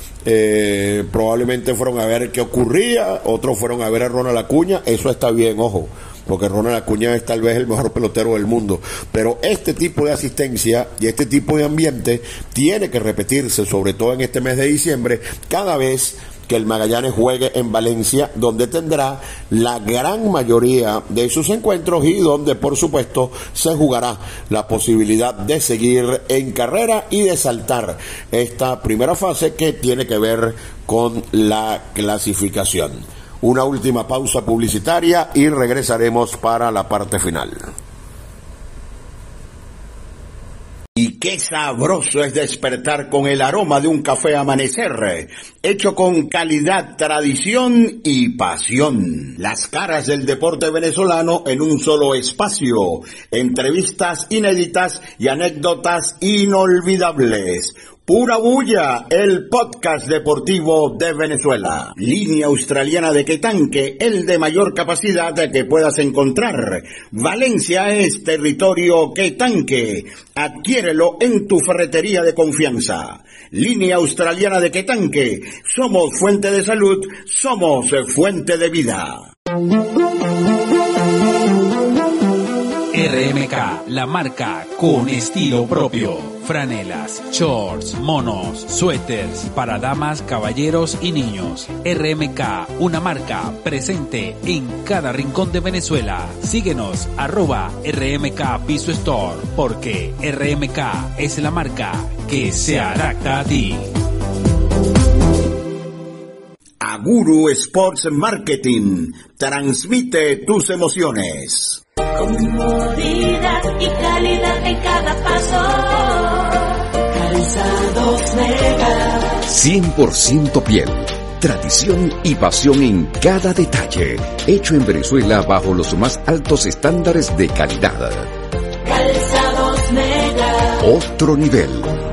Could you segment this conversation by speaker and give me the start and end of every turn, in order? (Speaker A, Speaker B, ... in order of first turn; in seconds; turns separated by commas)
Speaker A: 0.2-37.7, Speaker A: 41.0-79.3, Speaker B: 82.9-103.9, Speaker A: 106.8-111.8, Speaker C: 112.2-119.4, Speaker D: 119.5-128.3, Speaker C: 128.8-130.8, Speaker D: 130.8-131.9